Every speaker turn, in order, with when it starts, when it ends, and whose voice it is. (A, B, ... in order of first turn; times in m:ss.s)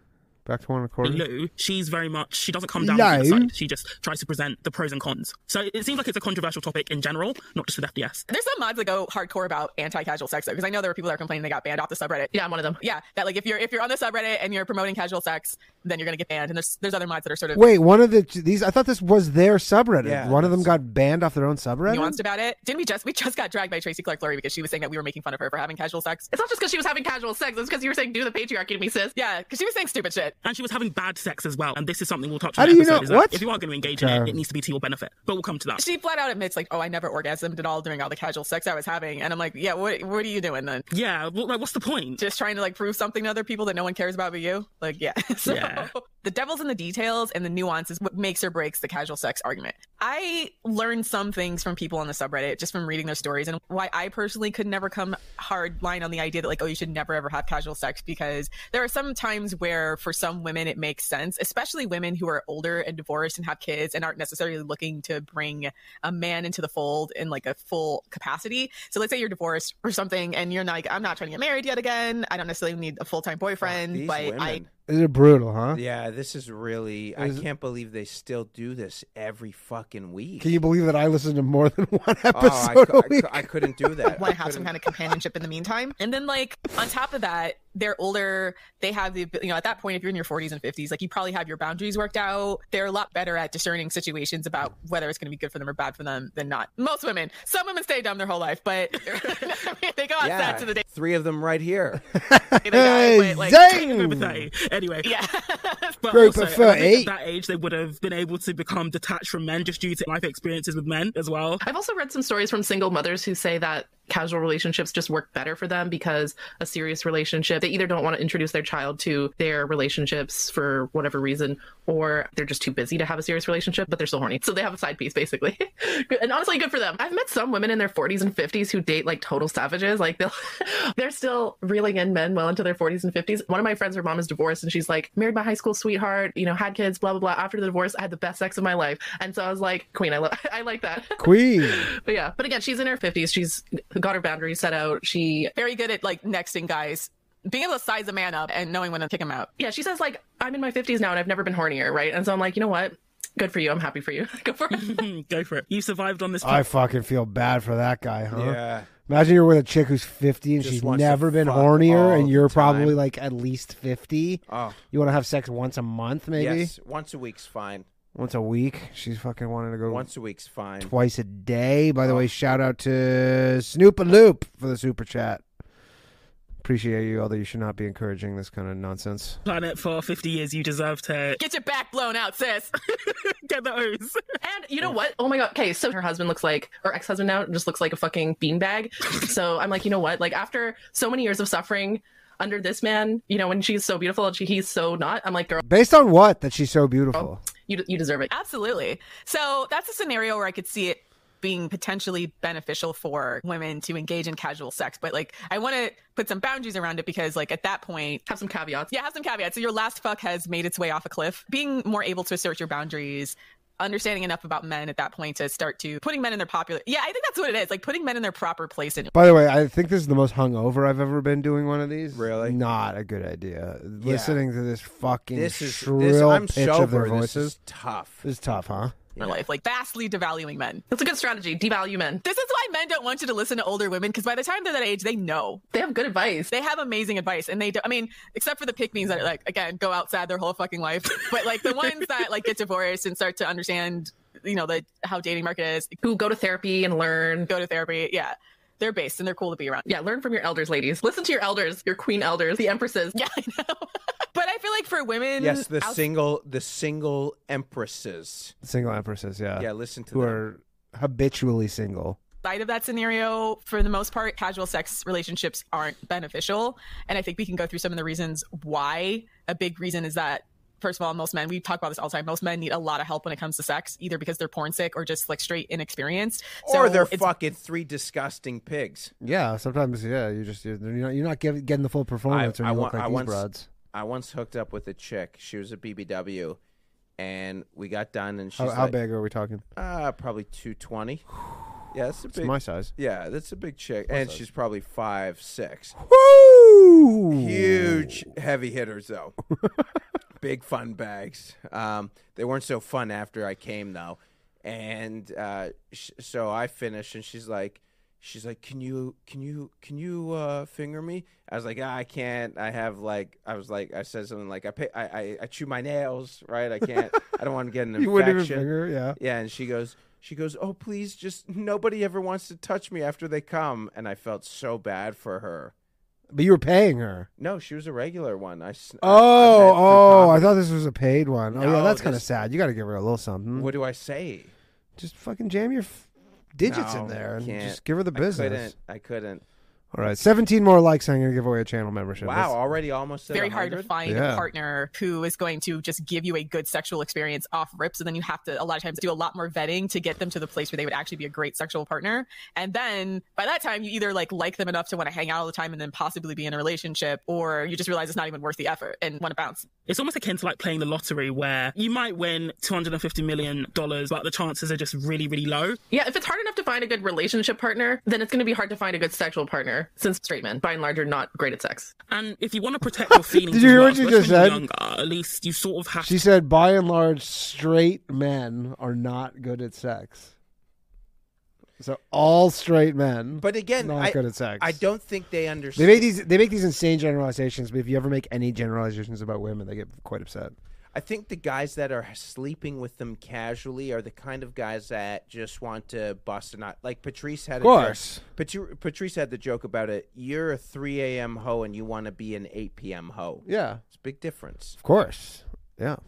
0:00.4-0:01.2 A
0:01.0-0:08.3 B
0:02.8-0:03.5 A
0:08.3-0:17.8 C
0:12.3-0:12.8 D
0:17.6-0:22.2 A
0:20.0-0:20.7 E
0:21.9-0:26.3 C
0:26.3-0:29.2 D
0:29.2-0:30.3 C
0:30.4-0:35.8 B
0:32.6-0:34.4 A
0:35.8-0:40.9 C
0:40.9-0:42.2 B
0:42.2-1:14.6 C
0:45.4-0:45.9 B
1:13.6-1:14.7 E
1:14.9-1:15.8 A
1:15.7-1:20.5 E
1:17.2-1:17.4 A
1:20.4-1:24.2 A
1:22.3-1:24.7 E
1:24.1-1:40.8 C
1:40.2-1:42.0 E
1:42.1-1:44.5 A
1:42.6-1:43.7 C
1:43.6-1:45.2 B
1:45.0-1:46.0 C
1:46.0-1:51.6 B
1:46.1-1:47.1 A
1:51.6-2:25.5 D
2:21.2-2:21.9 A
2:25.6-2:29.5 C
2:29.6-2:35.0 D
2:34.7-2:36.7 B
2:36.4-2:46.7 A
2:38.3-2:38.9 E
2:40.6-2:43.0 E
2:44.5-2:44.8 E
2:46.4-2:47.9 E
2:48.2-2:50.1 A
2:49.9-2:50.9 E
2:50.8-2:55.4 A
2:56.6-2:59.4 A
2:59.4-3:01.4 B
3:01.4-3:02.8 C
3:03.0-3:04.2 B
3:04.4-3:15.6 D
3:15.6-3:17.4 A
3:17.1-3:18.3 D
3:18.3-3:28.2 C
3:28.3-3:28.9 D
3:28.9-3:39.2 C
3:39.1-3:47.6 A
3:42.1-3:42.6 E
3:44.0-3:44.4 E
3:45.3-3:48.2 E
3:48.2-3:48.9 A
3:49.2-3:49.4 E
3:49.2-3:50.8 C
3:50.9-3:52.2 D
3:52.2-3:55.6 C
3:55.7-3:56.5 D
3:56.5-4:06.0 C
4:06.0-4:07.5 D
4:07.5-4:09.9 C
4:09.9-4:13.2 D
4:13.1-4:16.0 C
4:15.4-4:18.5 E
4:18.6-4:22.2 A
4:19.6-4:20.4 E
4:22.4-4:37.3 C
4:36.6-4:39.1 E
4:39.2-4:43.7 A
4:42.3-4:46.6 E
4:47.2-4:49.0 E
4:48.6-4:49.6 A
4:49.8-4:51.3 E
4:51.9-4:56.0 E
4:52.3-4:52.9 A
4:54.1-4:54.4 A
4:56.0-4:58.3 A
4:57.3-4:59.4 E
5:00.4-5:25.7 E
5:16.9-5:17.2 A
5:18.0-5:19.2 A
5:26.3-5:27.3 A
5:27.4-5:30.6 E
5:29.0-5:33.7 A
5:31.5-5:32.2 E
5:33.6-5:34.5 E
5:35.0-5:38.7 A
5:36.6-5:39.4 E
5:39.9-5:42.5 A
5:42.2-5:43.9 E
5:43.3-5:59.7 C
5:44.0-5:44.5 A
5:59.9-6:05.8 B
6:05.9-6:11.9 D
6:12.1-6:16.2 B
6:13.3-6:14.6 A
6:16.0-6:20.3 A
6:21.8-6:24.8 A
6:23.4-6:26.1 E
6:25.8-6:30.6 A
6:30.9-6:44.8 E
6:37.6-6:38.2 A
6:43.4-6:43.8 A
6:44.8-6:46.0 A